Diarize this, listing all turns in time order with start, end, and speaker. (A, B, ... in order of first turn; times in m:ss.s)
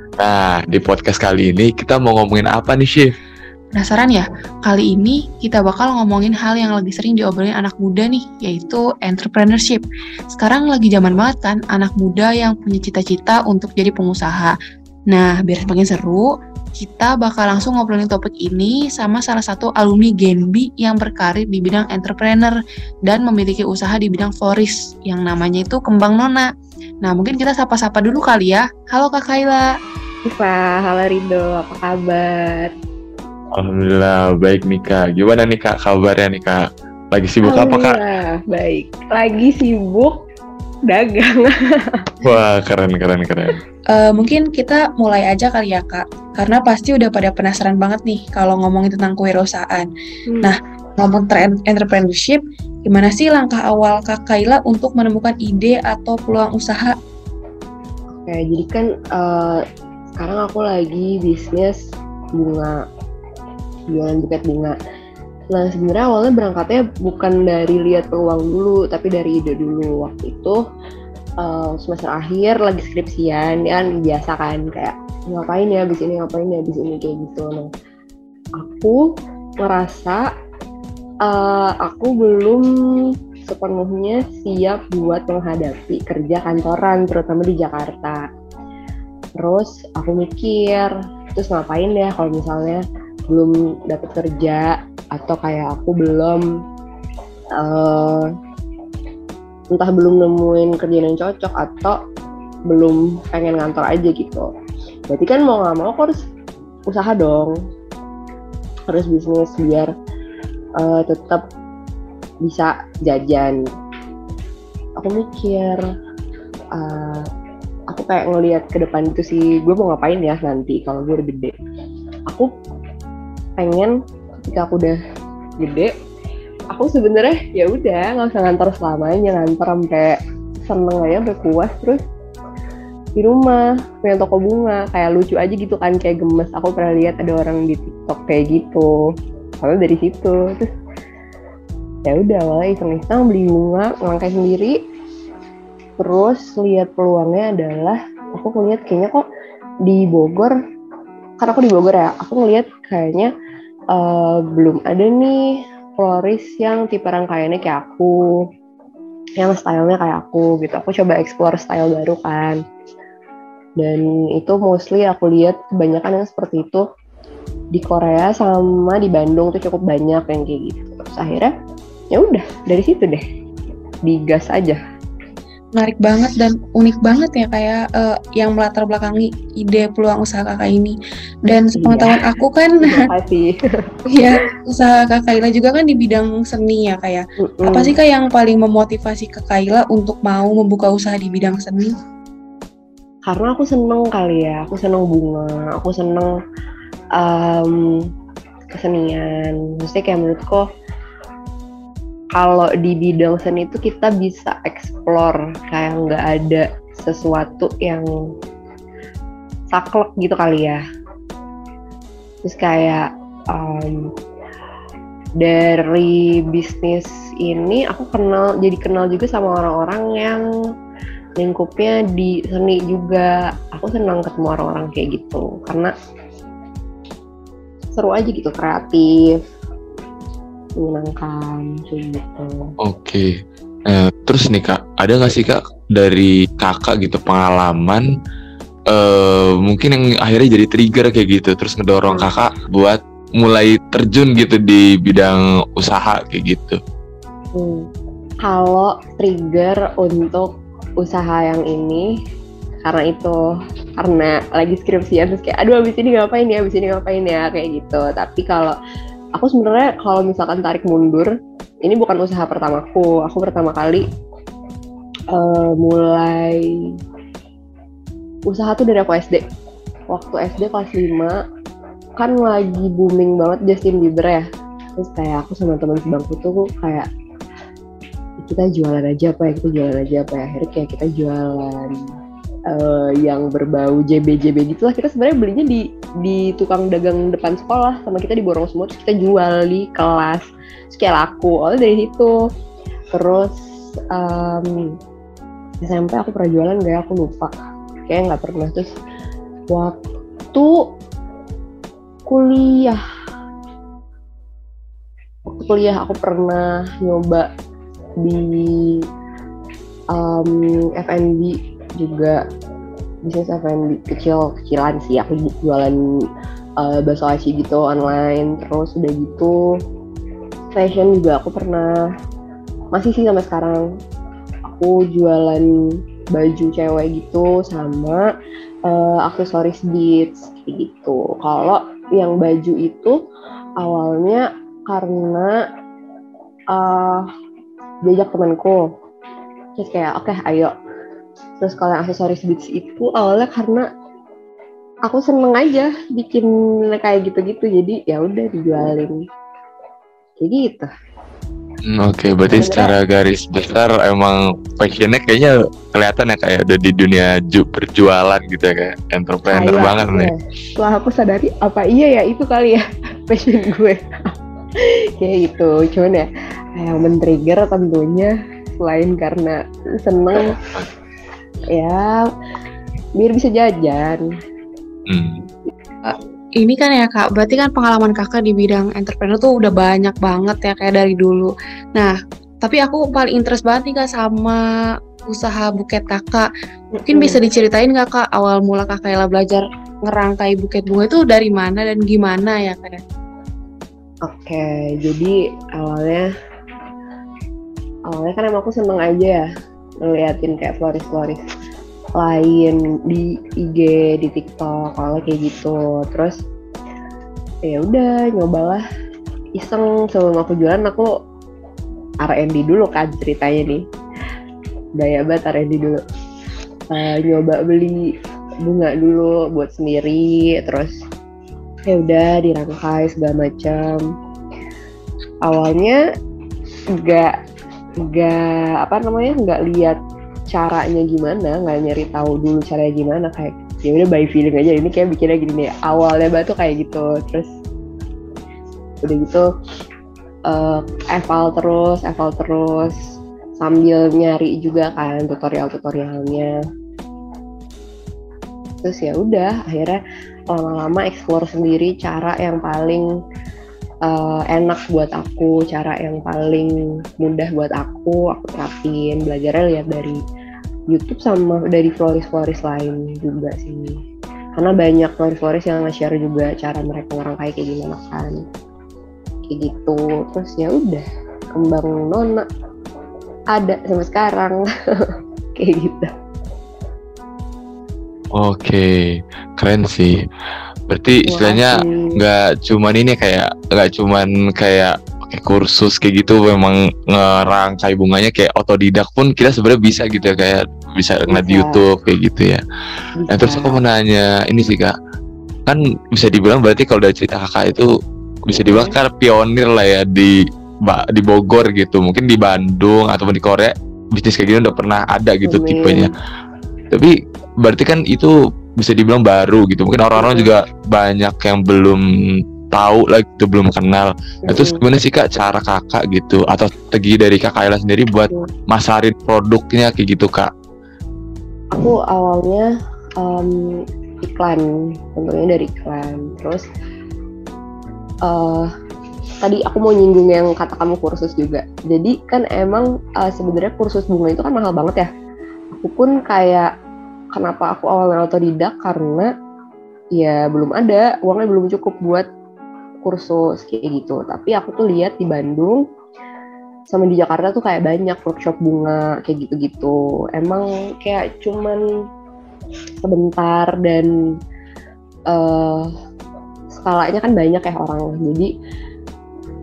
0:00.2-0:03.1 A
0:03.7-0:14.5 B
0:15.1-0:22.5 B
0:23.0-0:26.5 B
0:27.0-0:29.7 B
0:30.2-0:32.7 C
0:33.5-0:38.0 A
0:37.4-0:40.2 C
0:40.9-0:42.1 C
0:42.2-0:43.6 A
0:43.9-0:49.9 B
0:50.3-0:50.6 C
0:50.4-0:56.9 B
0:58.1-0:59.6 C
1:00.2-1:01.8 C
1:02.3-1:02.8 C
1:03.9-1:04.8 C
1:05.5-1:10.6 C
1:11.4-1:17.7 C
1:18.6-1:19.1 C
1:19.6-1:20.2 C
1:21.2-1:22.7 C
1:23.4-1:28.2 C
1:29.4-1:36.4 C
1:37.6-1:38.3 C
1:39.7-1:42.0 C
1:42.7-1:44.5 C
1:45.1-1:46.2 C
1:46.9-1:47.5 C
1:48.9-1:49.9 C
1:50.8-1:51.4 C
1:52.4-1:53.6 C
1:55.0-1:55.8 C
1:56.7-1:57.2 C
1:57.9-2:01.6 C
2:03.6-2:05.0 C
2:05.6-2:05.9 C
2:06.7-2:12.0 C
2:13.2-2:18.9 C
2:19.6-2:20.7 C
2:22.1-2:24.8 C
2:26.0-2:29.2 C
2:29.8-2:30.6 C
2:31.4-2:33.3 C
2:33.9-2:38.2 C
2:39.4-2:42.6 C
2:43.8-2:46.8 C
2:47.7-2:51.5 C
2:52.1-2:53.2 C
2:54.0-2:54.8 C
2:55.7-3:03.0 B
3:01.7-3:02.2 C
3:02.8-3:03.5 C
3:04.1-3:12.0 B
3:07.4-3:07.9 C
3:13.3-3:16.3 C
3:17.2-3:18.0 C
3:18.7-3:20.7 C
3:22.3-3:28.1 C
3:29.7-3:30.8 C
3:32.4-3:34.1 C
3:35.4-3:40.4 C
3:41.4-3:45.9 C
3:47.9-3:49.4 C
3:50.8-3:52.7 C
3:52.8-3:53.3 A
3:53.9-3:58.0 A
3:58.9-4:06.8 A
4:07.5-4:07.9 C
4:08.4-4:10.5 C
4:11.0-4:12.1 C
4:12.8-4:13.4 C
4:14.0-4:18.8 C
4:19.4-4:21.3 C
4:21.8-4:24.0 C
4:25.3-4:26.7 C
4:28.5-4:29.4 C
4:30.1-4:31.4 C
4:32.2-4:34.4 C
4:35.0-4:37.1 C
4:38.4-4:42.0 C
4:42.7-4:52.3 C
4:53.1-4:54.9 C
4:55.8-4:57.5 C
4:58.1-4:58.9 C
4:59.7-5:00.0 C
5:00.5-5:00.8 C
5:02.3-5:03.0 C
5:05.5-5:07.5 C
5:08.2-5:09.0 C
5:10.1-5:12.4 C
5:13.2-5:16.0 C
5:16.8-5:19.7 C
5:20.7-5:22.0 C
5:22.9-5:23.8 C
5:24.7-5:25.7 C
5:26.3-5:28.3 C
5:28.9-5:33.2 C
5:33.8-5:35.6 C
5:36.7-5:37.2 C
5:38.0-5:38.8 C
5:39.8-5:40.7 C
5:41.6-5:43.8 C
5:45.1-5:49.2 C
5:50.4-5:50.9 C
5:51.8-6:00.3 A
5:52.5-5:52.9 C
5:59.5-6:10.5 C
6:11.7-6:12.2 C
6:13.2-6:14.2 C
6:15.1-6:15.4 A
6:16.0-6:24.6 B
6:25.3-6:26.5 B
6:27.0-6:33.0 B
6:27.1-6:27.4 C
6:34.2-6:36.3 C
6:38.1-6:39.4 C
6:40.0-6:41.4 C
6:42.2-6:46.4 C
6:47.6-6:48.8 C
6:49.6-6:51.1 C
6:52.2-6:53.8 C
6:55.0-6:56.0 C
6:56.9-6:58.1 C
6:58.6-7:01.0 C
7:01.9-7:04.0 C
7:05.4-7:06.0 C
7:07.0-7:07.4 C
7:08.0-7:10.0 C
7:10.5-7:17.5 C
7:19.0-7:19.4 C
7:20.5-7:23.0 C
7:23.6-7:26.5 C
7:28.8-7:33.1 C
7:34.0-7:40.2 C
7:40.9-7:44.0 C
7:44.6-7:48.4 C
7:49.5-7:52.4 C
7:53.5-7:54.6 C
7:55.6-7:56.1 C
7:58.3-8:00.2 A
8:00.9-8:12.6 A
8:01.2-8:02.2 C
8:11.3-8:11.8 C
8:13.2-8:13.8 C
8:13.3-8:14.9 A
8:15.6-8:17.9 A
8:18.4-8:26.1 A
8:18.6-8:18.9 C
8:25.4-8:26.1 C
8:26.9-8:32.0 A
8:30.2-8:30.5 C
8:32.7-8:40.5 A
8:34.4-8:34.8 C
8:41.7-8:46.6 C
8:48.2-8:48.7 C
8:49.4-8:55.1 C
8:55.7-8:56.7 C
8:57.3-8:59.3 C
9:00.2-9:02.2 C
9:03.0-9:05.8 C
9:06.9-9:11.8 C
9:13.0-9:14.1 C
9:15.3-9:15.9 C
9:16.7-9:18.5 C